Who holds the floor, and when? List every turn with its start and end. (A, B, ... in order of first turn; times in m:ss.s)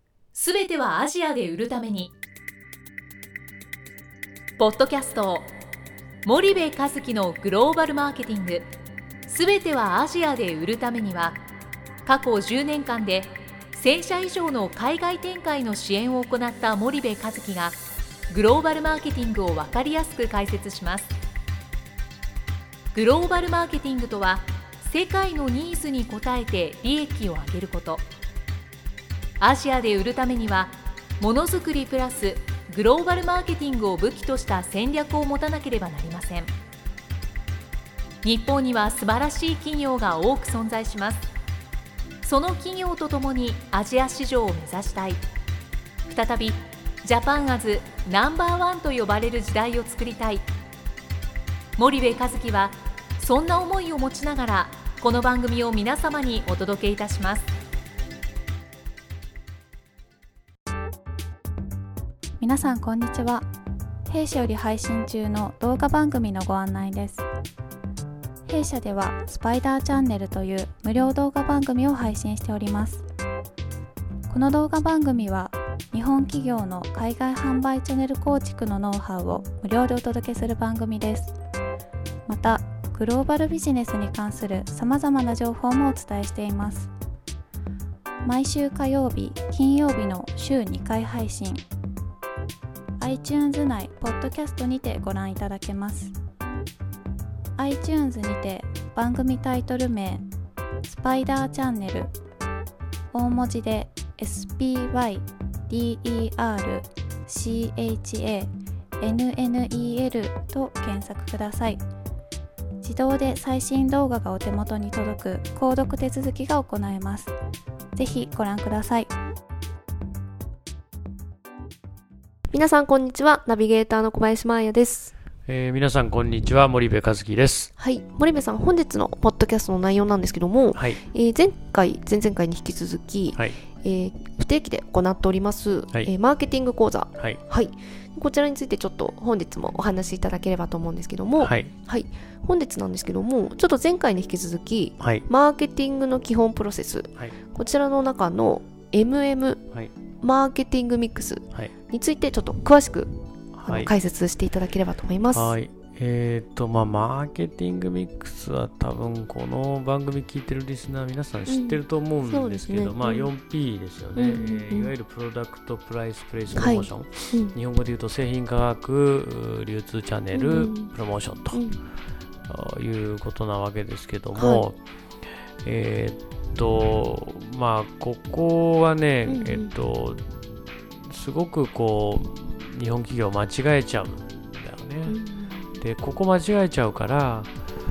0:00.3-0:02.1 A
0:04.6-0:05.5 A
0:06.2-0:08.7 A
0:09.2-0:11.4 A
0:12.0-0:17.8 A
0:18.3-0:21.1 A
0:22.9-0:28.0 A
0:29.4-0:36.5 A
0:38.2-0:41.2 A
0:42.2-0:45.2 A
0:46.0-0:50.4 A
0:51.8-0:57.5 A
1:02.4-1:03.5 B
1:04.1-1:07.2 B
1:08.4-1:13.0 B
1:14.3-1:21.3 B
1:22.3-1:26.9 B
1:28.2-1:31.6 B
1:33.0-1:36.1 B
1:37.6-1:40.2 B
1:40.8-1:42.1 B
1:43.1-1:51.8 B
1:52.8-1:57.3 B
1:57.9-1:59.1 B
2:02.5-2:05.1 C
2:05.5-2:07.7 D
2:07.8-2:29.6 C
2:10.7-2:11.0 D
2:17.2-2:17.4 D
2:21.4-2:21.7 D
2:25.0-2:25.3 D
2:30.2-2:33.1 C
2:33.5-2:33.9 D
2:33.6-2:35.5 C
2:35.3-2:51.6 D
2:41.5-2:43.3 C
2:44.1-2:44.9 C
2:46.5-2:47.6 C
2:50.3-2:50.9 C
2:51.5-2:51.8 C
2:52.5-2:54.8 D
2:54.4-2:54.6 C
2:55.6-3:00.2 D
2:59.3-2:59.7 C
3:01.0-3:05.2 D
3:05.1-3:05.8 C
3:05.8-3:07.7 D